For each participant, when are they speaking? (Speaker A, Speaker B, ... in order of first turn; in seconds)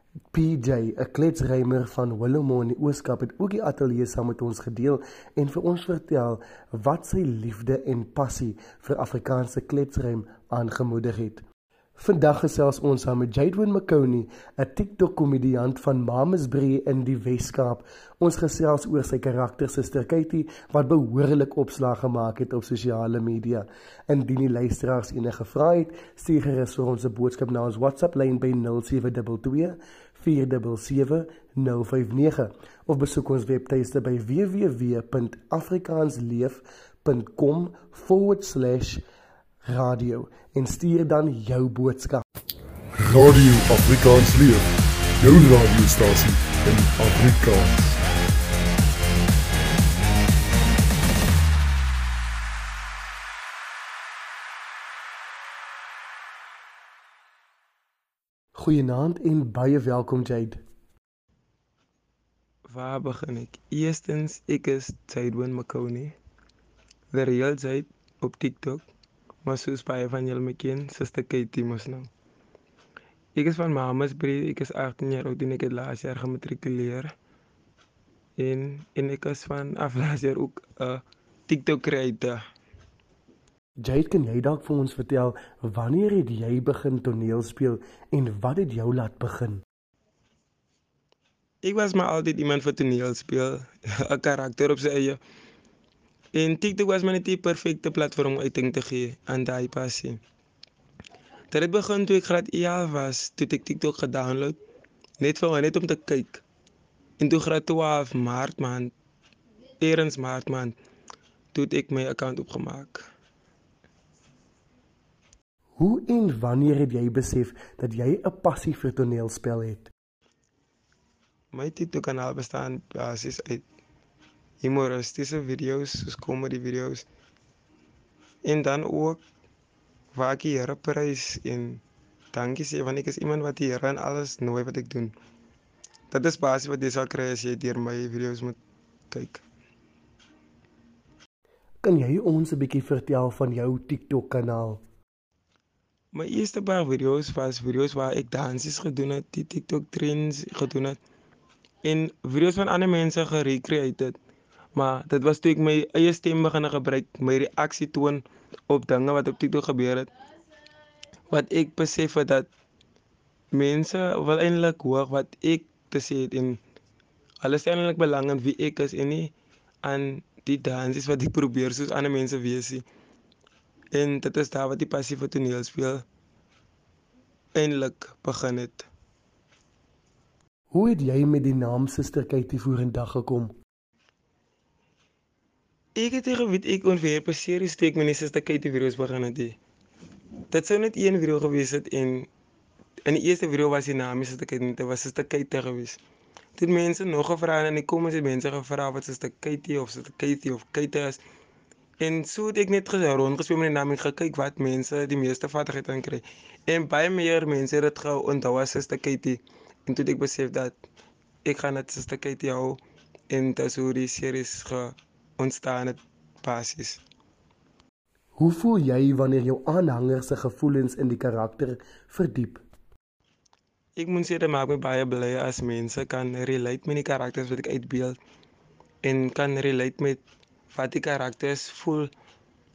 Speaker A: 0.3-11.4, 12.0-39.0, 39.6-42.2, 58.6-60.6, 83.8-89.6, 115.8-119.9, 141.8-144.8, 180.7-183.5, 218.4-222.6
Speaker B: 43.0-44.7, 45.2-48.0
Speaker C: 62.7-66.1, 67.1-68.9, 69.4-72.1, 73.4-77.1, 78.4-82.4, 91.6-95.2, 96.3-100.2, 101.5-104.6, 105.2-106.4, 107.2-108.9, 109.8-110.8, 111.5-113.1, 121.5-123.6, 124.6-127.1, 128.4-129.2, 130.1-131.8, 132.3-135.1, 136.1-138.6, 139.1-139.4, 146.1-151.0, 151.8-154.2, 154.8-160.1, 161.3-162.5, 163.5-166.6, 167.4-169.3, 169.8-172.8, 173.9-176.1, 177.6-178.9, 186.0-189.6, 190.5-192.3, 193.1-196.0, 196.6-201.2, 202.0-210.8, 211.4-212.8, 213.3-217.0, 224.0-228.2, 229.0-230.2, 230.7-232.1